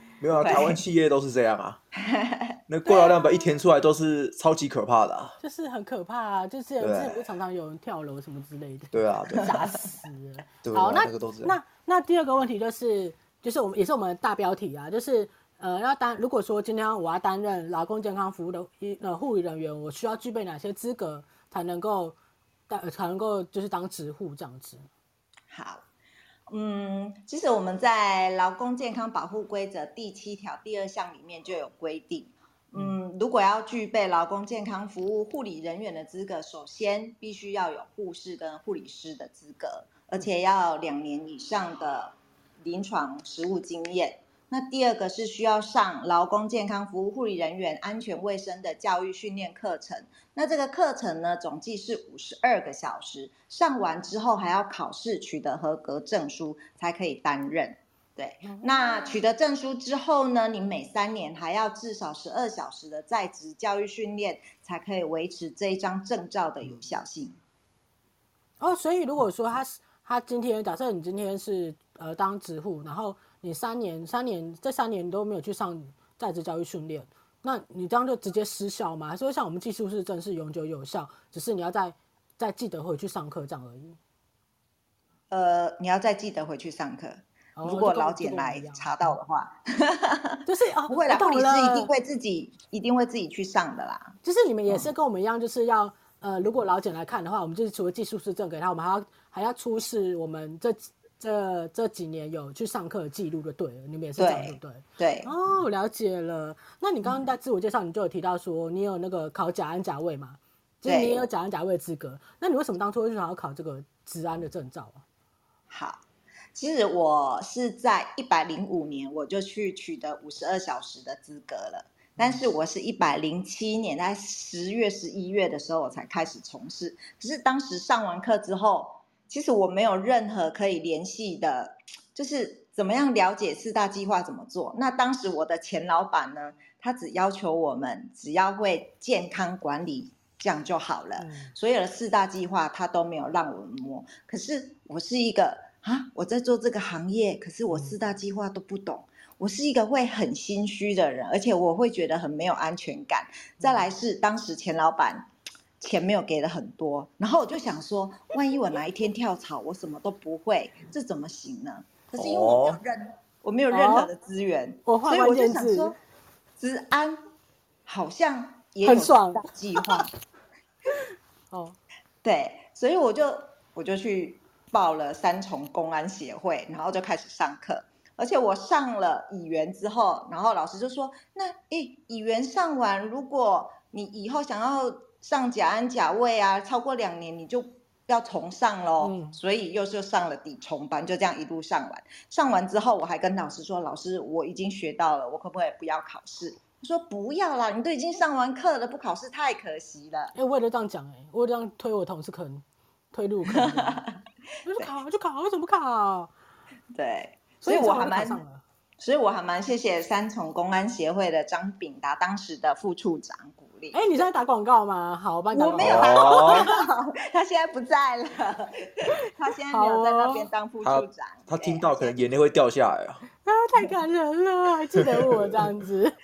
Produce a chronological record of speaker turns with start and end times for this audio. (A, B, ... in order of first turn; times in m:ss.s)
0:00.2-0:01.8 A
0:00.4-0:00.8 B
0:02.0-0:02.6 B
0:02.7-0:05.4 A
0:02.9-0:03.4 C
0:05.4-0:22.2 C
0:06.8-0:07.2 A
0:08.9-0:09.5 A
0:10.6-0:11.6 A
0:22.7-0:24.9 C
0:25.5-0:25.8 B
0:26.5-1:07.4 B
0:58.4-0:59.2 C
1:08.6-1:24.0 C
1:25.3-1:34.2 B
1:27.6-1:28.9 C
1:30.5-1:31.9 C
1:34.2-1:55.0 C
1:44.2-1:45.3 B
1:50.8-1:51.2 B
1:55.7-1:56.0 B
1:56.6-2:35.3 B
2:21.2-2:21.5 C
2:33.6-2:33.9 C
2:35.8-2:46.0 B
2:42.2-2:42.8 A
2:43.7-2:44.1 C
2:44.9-2:45.9 C
2:46.6-2:47.2 B
2:47.9-2:50.1 B
2:48.8-2:49.4 C
2:51.5-2:51.8 C
2:52.2-3:20.3 B
3:09.0-3:09.4 C
3:20.4-3:24.0 C
3:23.5-3:24.2 B
3:24.6-3:26.3 C
3:26.9-3:28.4 B
3:27.6-3:28.6 C
3:29.0-3:34.3 B
3:33.9-3:36.8 C
3:35.5-3:42.2 B
3:35.8-3:36.6 A
3:39.7-3:40.4 C
3:40.8-3:43.2 A
3:43.5-3:46.2 C
3:45.2-3:45.6 A